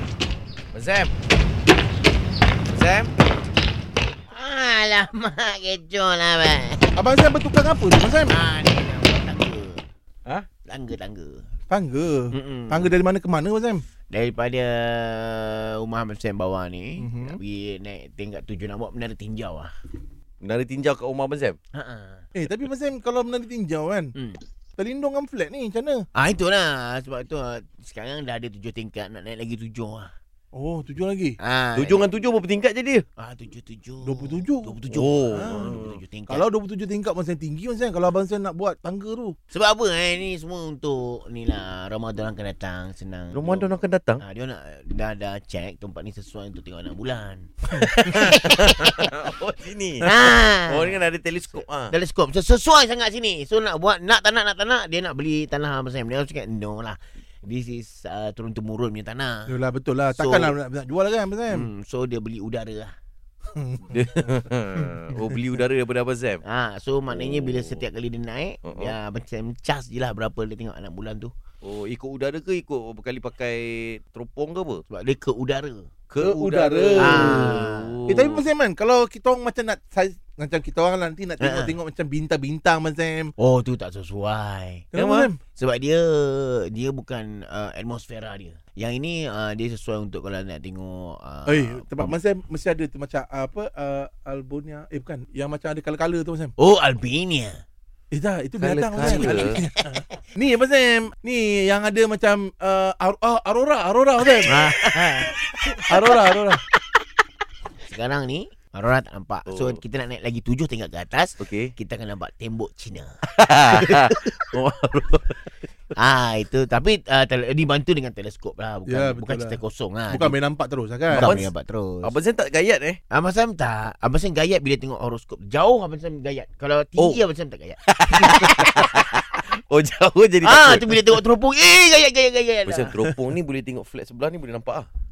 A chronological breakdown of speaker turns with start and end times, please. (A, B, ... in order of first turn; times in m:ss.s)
0:00.7-0:01.1 A
0:02.7-0:03.1 A
0:04.3-0:06.9 B
0:06.9-0:08.4 C
0:08.3-0:09.9 B
0:10.6-0:11.5 B
0:11.7-0:13.8 C
0:12.3-0:12.9 B
0:14.1-0:19.7 B
0:17.0-0:17.4 C
0:20.4-0:21.6 A
0:21.7-0:22.3 B
0:22.4-0:24.1 C
0:24.2-0:24.4 B
0:24.8-0:26.0 C
0:26.1-0:30.1 B
0:30.5-0:31.4 C
0:31.4-0:32.1 B
0:31.8-0:33.0 A
0:33.2-0:36.4 B
0:34.0-0:34.8 C
0:34.9-0:36.0 A
0:35.3-0:39.4 C
0:39.5-0:49.1 B
0:43.3-0:44.2 A
0:47.7-0:51.9 A
0:50.0-0:51.0 B
0:51.5-0:59.6 B
0:59.5-1:01.7 C
1:00.1-1:00.6 B
1:01.5-1:02.9 B
1:03.5-1:04.2 C
1:03.9-1:06.4 A
1:06.4-1:11.3 B
1:07.1-1:07.8 A
1:08.6-1:08.9 A
1:11.6-1:14.8 A
1:14.9-1:15.9 B
1:16.1-1:18.5 A
1:16.2-1:17.5 C
1:17.0-1:18.0 B
1:18.1-1:23.3 C
1:21.4-1:21.7 B
1:23.4-1:24.9 B
1:24.9-1:25.4 C
1:24.9-1:25.3 A
1:25.6-1:32.1 B
1:31.5-1:36.5 C
1:36.6-1:37.6 B
1:38.1-1:44.6 C
1:38.6-1:39.6 A
1:39.0-1:39.6 B
1:44.4-1:46.2 B
1:44.5-1:45.3 A
1:45.9-1:46.6 C
1:47.8-1:53.1 B
1:49.5-1:49.8 A
1:51.4-1:51.7 A
1:53.3-1:55.5 A
1:53.6-1:54.6 B
1:56.0-2:00.4 B
1:58.9-1:59.6 C
2:00.1-2:01.3 C
2:01.1-2:02.1 B
2:01.1-2:01.5 A
2:02.0-2:03.0 A
2:03.1-2:09.2 B
2:07.9-2:11.2 A
2:10.4-2:12.9 B
2:12.7-2:14.9 A